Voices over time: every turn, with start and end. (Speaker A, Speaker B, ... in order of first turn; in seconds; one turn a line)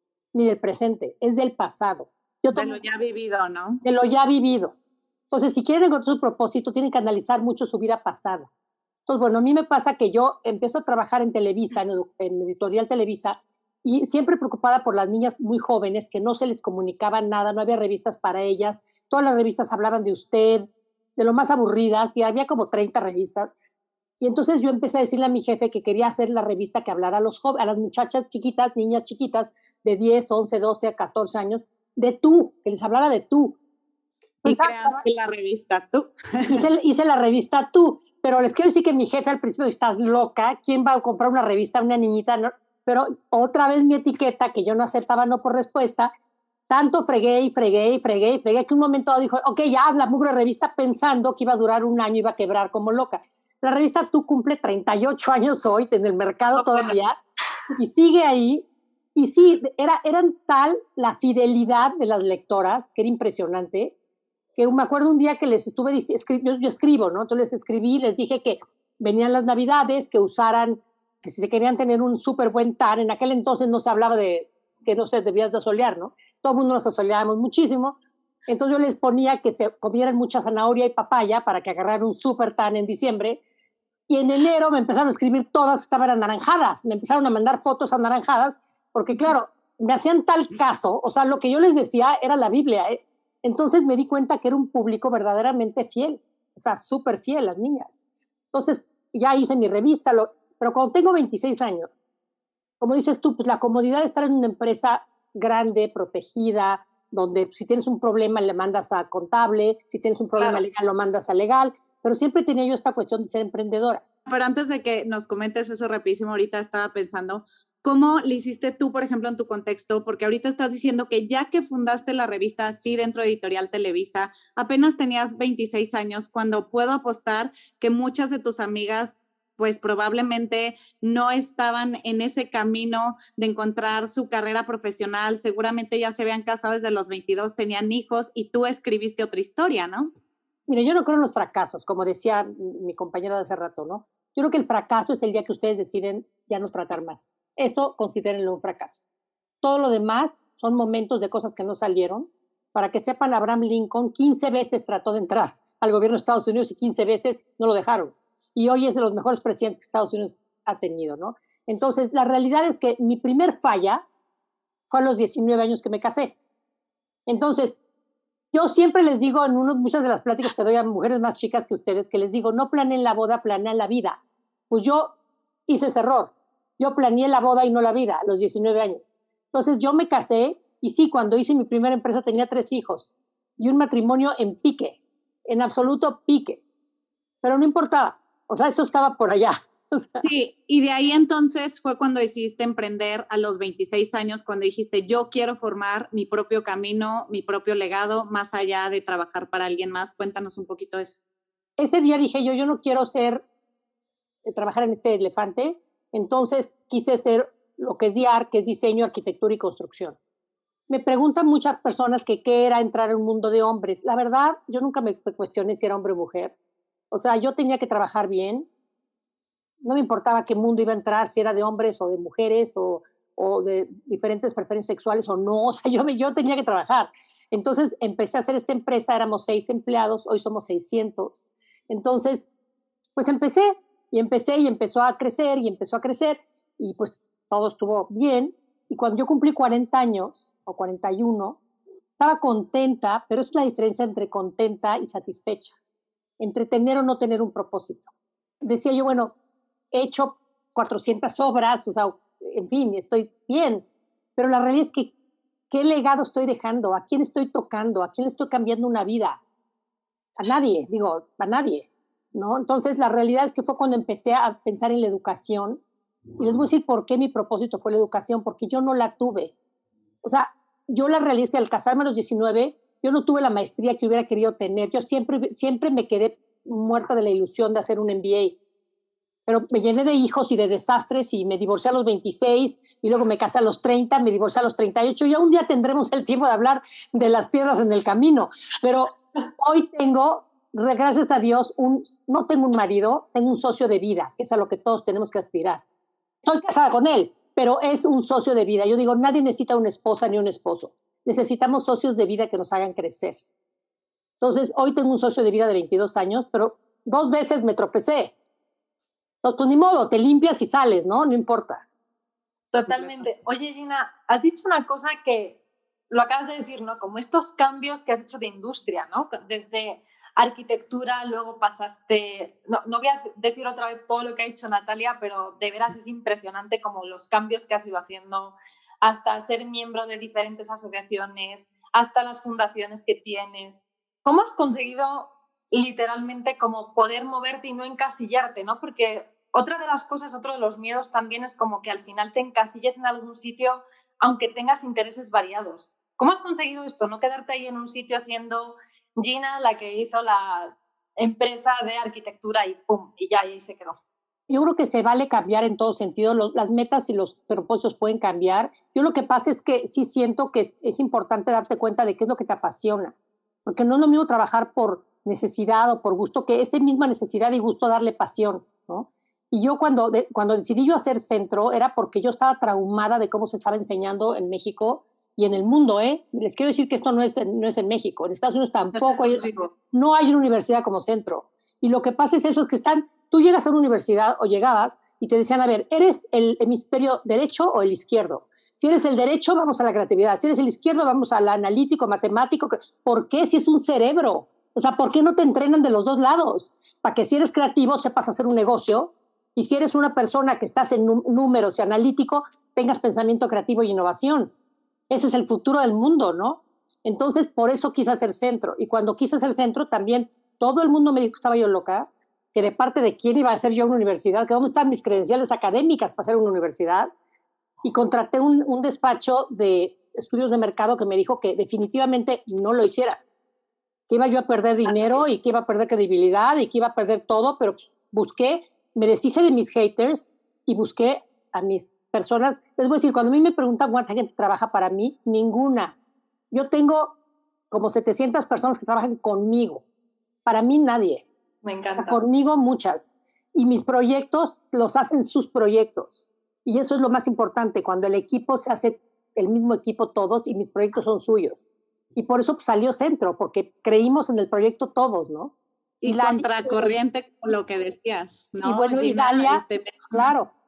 Speaker A: 0.3-2.8
Speaker B: 2.5-3.8
Speaker A: 3.8-4.8
Speaker A: 5.3-8.5
Speaker A: 9.1-23.5
Speaker A: 24.2-33.6
Speaker A: 34.4-35.0
Speaker B: 34.4-36.6
Speaker A: 36.5-46.1
Speaker A: 46.7-57.2
Speaker C: 56.5-56.9
Speaker A: 57.8-58.6
Speaker A: 59.2-63.9
Speaker A: 64.6-78.0
Speaker A: 78.5-83.4
Speaker A: 84.1-98.0
Speaker A: 98.5-101.9
Speaker A: 102.8-114.0
Speaker C: 110.4-110.6
Speaker B: 114.3-140.1
Speaker A: 140.7-149.0
Speaker A: 149.6-164.0
Speaker A: 164.9-166.3
Speaker A: 167.3-167.8
Speaker A: 168.5-175.1
Speaker A: 175.7-186.6
Speaker A: 187.4-190.3
Speaker B: 190.2-201.2
Speaker A: 201.8-203.4
Speaker A: 204.4-210.2
Speaker A: 210.9-216.5
Speaker A: 217.1-218.7
Speaker A: 219.8-232.5
Speaker A: 233.2-241.6
Speaker A: 242.2-245.7
Speaker A: 246.4-248.1
Speaker A: 248.6-249.3
Speaker A: 249.9-253.8
Speaker A: 254.4-255.1
Speaker A: 255.7-259.4
Speaker A: 260.4-265.8
Speaker A: 266.4-269.5
Speaker A: 270.2-278.6
Speaker A: 279.5-295.8
Speaker A: 296.4-303.4
Speaker A: 304.4-308.3
Speaker A: 309.4-311.8
Speaker C: 312.7-354.0
Speaker A: 354.5-363.1
Speaker A: 363.7-404.5
Speaker C: 378.9-379.7
Speaker A: 405.1-417.1
Speaker A: 417.8-423.2
Speaker A: 424.1-435.9
Speaker A: 436.5-437.1
Speaker A: 437.7-439.8
Speaker A: 440.4-441.2
Speaker C: 441.6-442.2
Speaker A: 442.0-451.6
Speaker A: 452.2-455.5
Speaker B: 456.0-460.3
Speaker A: 456.0-457.0
Speaker A: 458.6-460.5